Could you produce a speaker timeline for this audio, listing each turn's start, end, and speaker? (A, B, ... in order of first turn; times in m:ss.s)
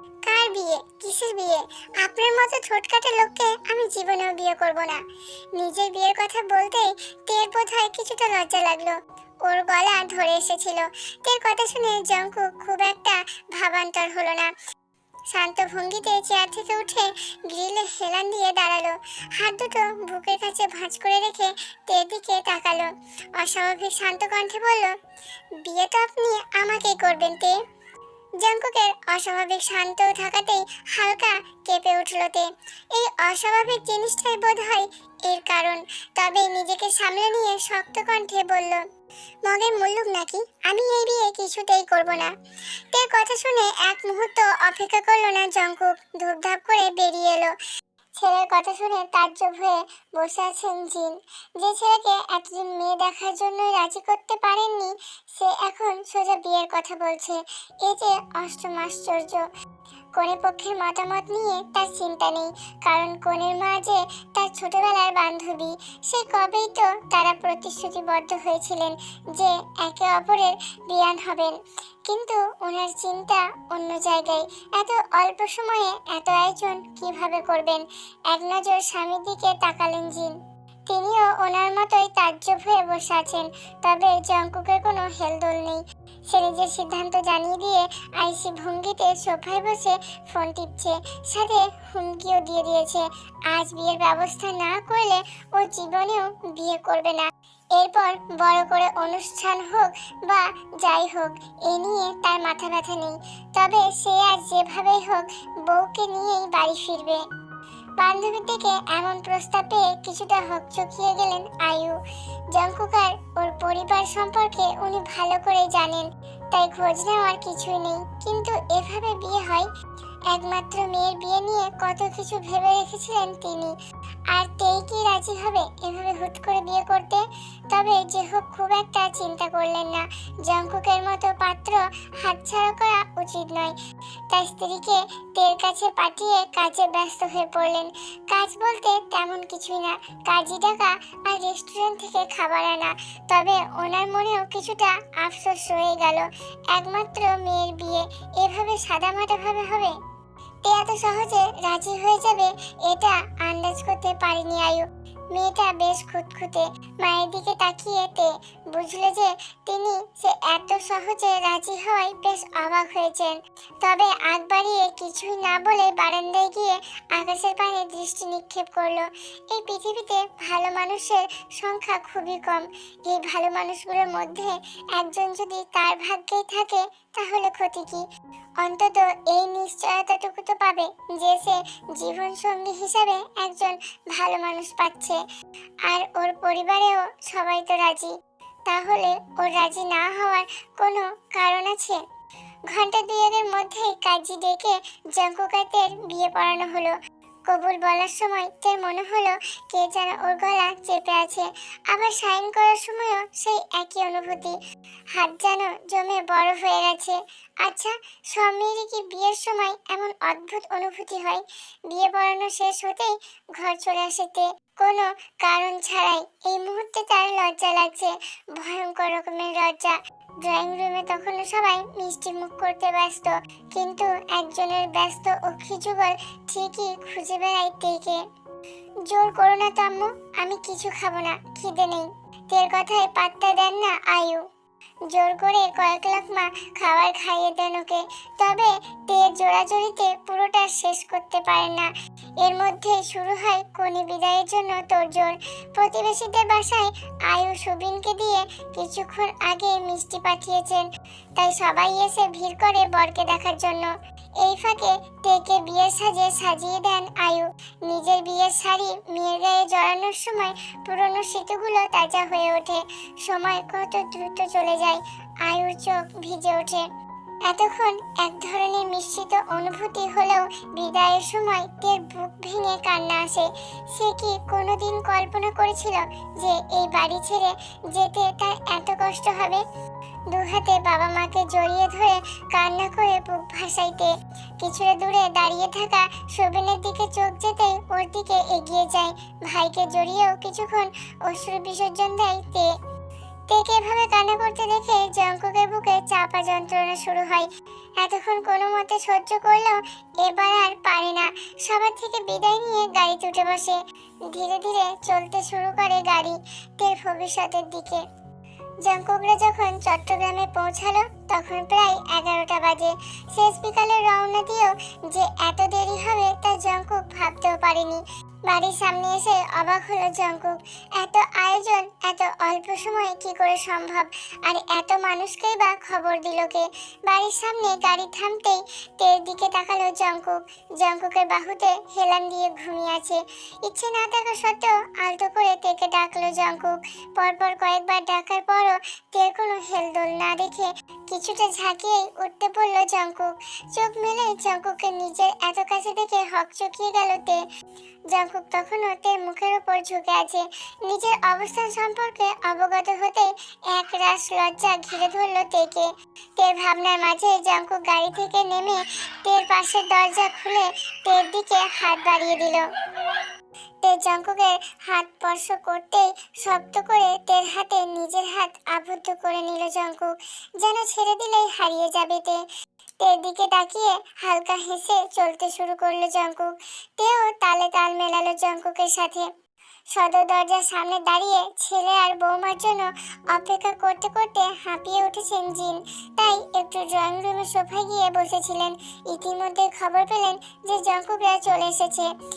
0:00.2-0:05.0 A
0:05.6-0:14.5 A
0:15.3-0:24.9 A
0:25.6-0:27.6 A
0:28.4-0:38.9 A
0:39.4-0:42.3 A
0:42.9-0:47.5 A
0:48.2-0:59.5 A
1:00.2-1:47.2 A
1:48.0-1:52.0 A
1:52.5-1:59.7 A
2:00.3-2:03.8 A
2:04.3-2:13.8 A
2:14.3-2:30.0 A
2:30.6-2:58.1 A
2:58.6-3:05.2 A
3:05.9-3:08.2 A
3:08.7-3:12.0 A
3:12.7-3:17.0 A
3:17.5-3:24.6 A
3:25.1-3:48.2 A
3:49.0-3:54.4 A
3:55.1-4:26.9 A
4:27.5-4:39.6 A
4:40.3-4:52.7 A
4:53.5-4:57.5 A
4:58.0-5:08.0 A
5:08.8-5:47.4 A
5:48.1-6:03.2 A
6:03.8-6:12.4 A
6:13.0-6:19.3 A
6:19.9-6:32.1 A